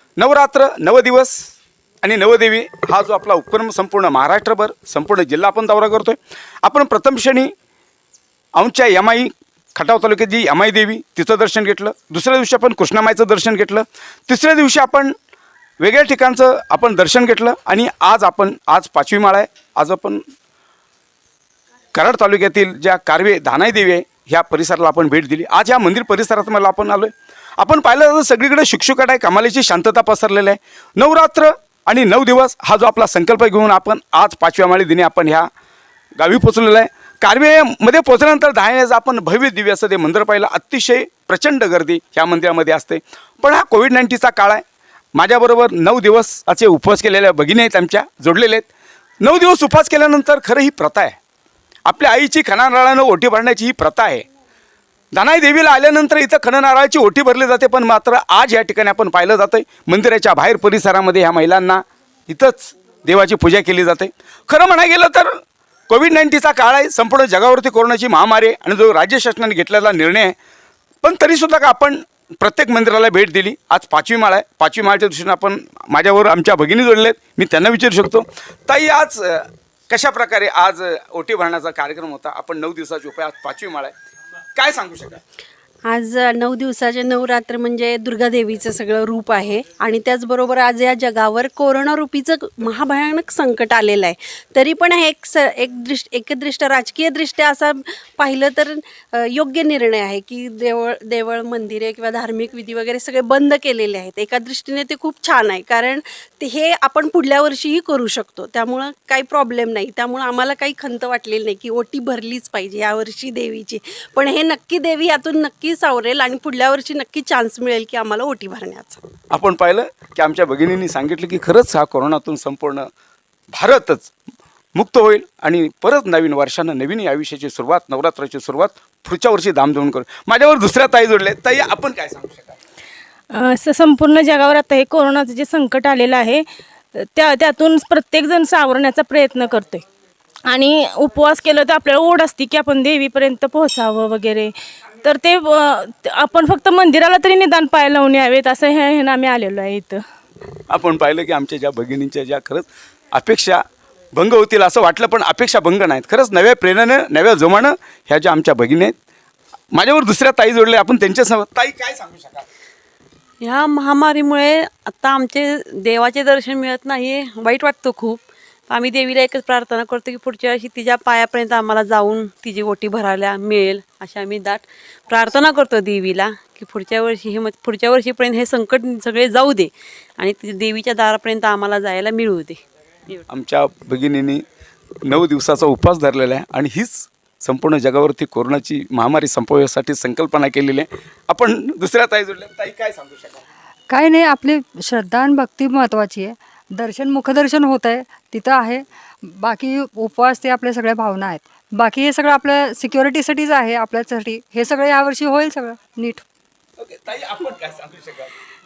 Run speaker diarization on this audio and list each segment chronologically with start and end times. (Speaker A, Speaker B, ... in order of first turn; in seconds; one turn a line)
Speaker A: 0.2-1.5
Speaker A: 2.0-7.5
Speaker A: 8.6-15.1
Speaker A: 15.8-20.2
Speaker A: 21.9-35.5
Speaker A: 36.2-44.6
Speaker A: 45.1-48.7
Speaker A: 49.2-51.1
Speaker A: 51.9-54.2
Speaker A: 55.1-65.4
Speaker A: 65.9-70.3
Speaker A: 71.0-83.9
Speaker A: 84.5-85.2
Speaker B: 85.8-119.0
Speaker A: 119.3-122.9
Speaker A: 123.5-124.1
Speaker A: 124.8-132.6
Speaker C: 133.3-136.4
Speaker C: 137.0-139.8
Speaker C: 140.5-144.5
Speaker C: 145.0-150.0
Speaker A: 150.7-153.6
Speaker A: 154.1-158.9
Speaker A: 159.7-162.4
Speaker D: 163.4-183.2
Speaker A: 183.3-184.4
Speaker A: 185.0-193.4
Speaker E: 193.9-206.2
Speaker A: 206.8-208.3